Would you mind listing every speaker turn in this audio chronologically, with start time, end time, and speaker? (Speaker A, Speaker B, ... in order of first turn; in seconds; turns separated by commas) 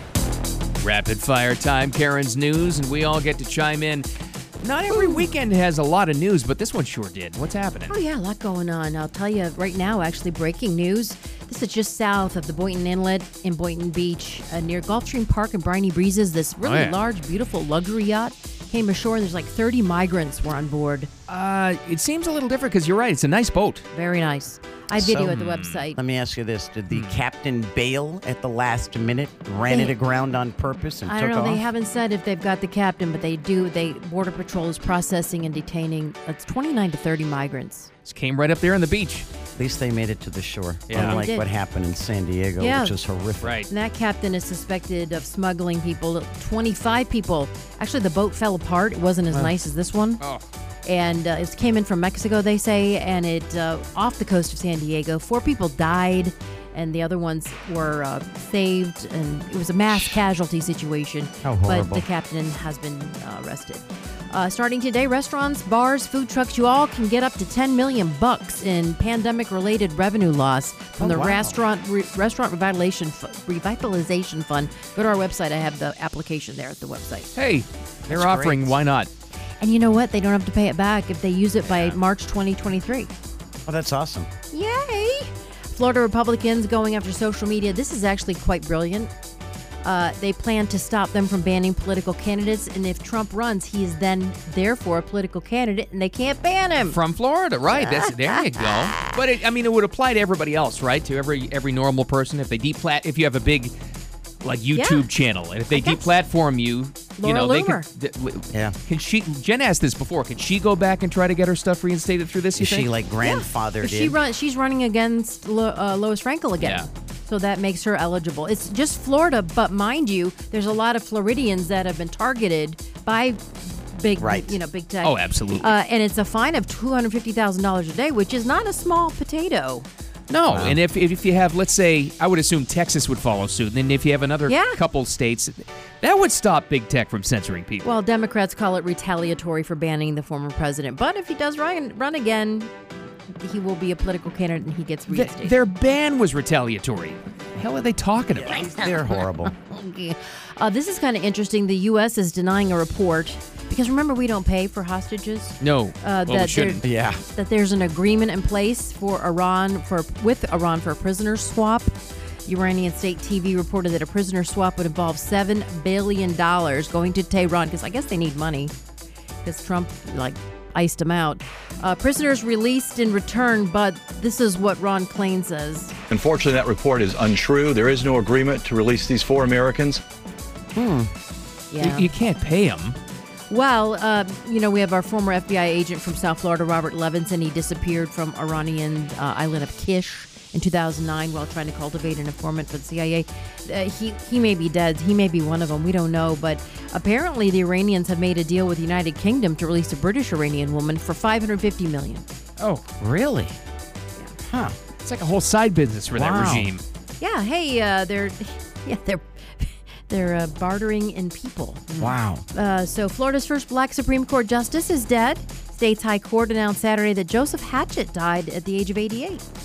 Speaker A: 0.8-4.1, Speaker A: 4.6-8.0, Speaker B: 7.9-21.1, Speaker A: 16.6-17.0, Speaker A: 21.3-23.9, Speaker B: 23.9-26.0, Speaker C: 24.9-31.6, Speaker A: 25.4-25.8, Speaker A: 26.9-27.2, Speaker B: 29.7-30.0, Speaker B: 31.1-37.9, Speaker A: 38.0-39.3, Speaker C: 39.5-43.6, Speaker A: 40.9-41.2, Speaker B: 40.9-41.5, Speaker B: 42.6-43.0, Speaker A: 43.4-43.7, Speaker B: 43.7-50.2, Speaker B: 50.9-77.3, Speaker C: 61.4-62.0, Speaker C: 71.0-71.6, Speaker A: 77.3-79.1, Speaker C: 78.1-78.8, Speaker B: 79.6-83.1, Speaker A: 81.6-82.0, Speaker C: 83.7-84.3, Speaker B: 84.5-89.1, Speaker B: 89.8-97.0, Speaker A: 96.8-103.7, Speaker B: 97.7-98.0, Speaker A: 104.4-112.9, Speaker B: 104.7-105.1, Speaker B: 105.7-106.1, Speaker B: 107.2-107.9, Speaker C: 112.6-114.2, Speaker B: 113.2-129.9, Speaker A: 116.6-116.9, Speaker C: 124.2-124.6, Speaker A: 125.0-125.7, Speaker A: 130.3-137.9, Speaker B: 134.5-134.8, Speaker B: 137.8-142.7, Speaker B: 143.4-145.6, Speaker A: 145.1-148.7, Speaker C: 148.3-149.5, Speaker B: 148.5-161.9, Speaker A: 155.6-156.8, Speaker C: 156.8-157.2, Speaker B: 162.5-168.7, Speaker B: 169.4-175.9, Speaker D: 176.1-180.0, Speaker C: 180.8-181.1, Speaker B: 181.7-182.1, Speaker A: 181.8-183.0, Speaker B: 183.5-202.2, Speaker C: 203.0-203.6, Speaker C: 204.4-204.8, Speaker A: 205.0-206.8, Speaker C: 206.1-206.7, Speaker B: 207.2-211.9, Speaker A: 211.9-212.2, Speaker C: 212.0-212.4, Speaker B: 212.5-219.4